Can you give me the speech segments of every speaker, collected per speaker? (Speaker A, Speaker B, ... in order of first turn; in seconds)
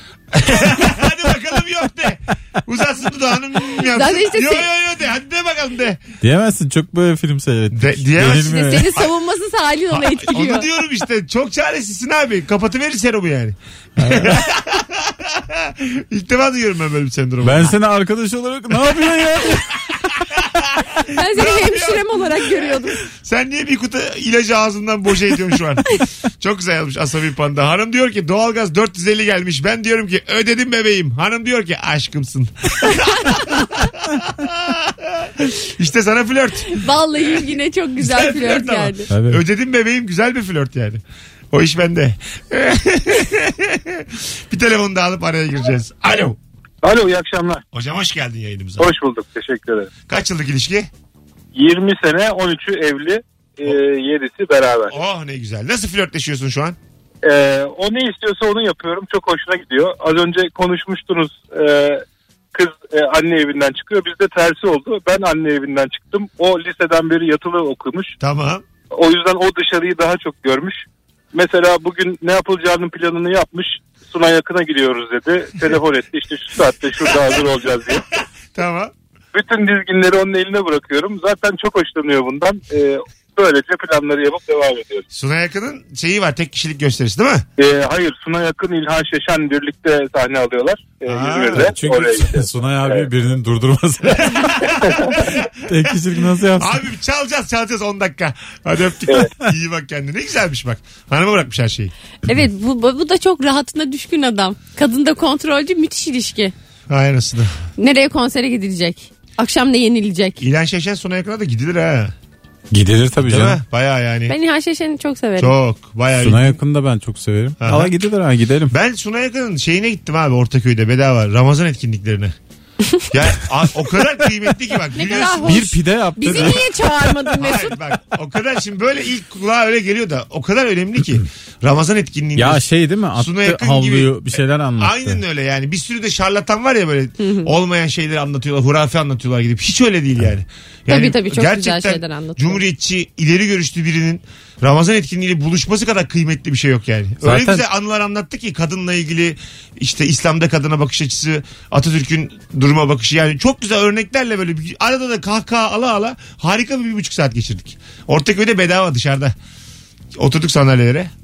Speaker A: 0.3-6.0, 7.7-8.5, 9.9-17.7, 20.3-37.5, 38.0-46.4, 47.7-48.9, 50.1-50.9, 54.9-56.8, 68.2-68.6, 78.5-78.9, 85.1-87.5, 91.0-91.7, 94.3-96.0, 96.6-101.9, 106.9-107.5, 110.4-112.1, 113.2-114.3, 115.4-116.6, 117.6-117.9, 118.7-122.3, 123.1-125.7, 126.3-126.6, 127.3-132.6, 133.2-159.3, 160.2-161.1
Speaker B: 3.9-4.7, 8.4-10.7, 21.1-23.0, 36.7-39.1, 102.3-106.5, 107.8-110.4, 114.3-115.5, 124.9-127.8, 137.2-137.5, 140.9-142.6
Speaker C: 6.2-9.0, 14.0-14.4, 17.4-19.8, 39.1-39.4, 91.6-94.8, 95.7-96.8, 112.7-113.6, 116.2-118.7, 125.4-126.7, 132.3-135.2, 147.2-147.6
Speaker D: 46.8-47.6, 48.8-49.9, 51.5-54.9, 57.2-68.1, 68.9-78.0, 79.3-85.0, 87.6-93.1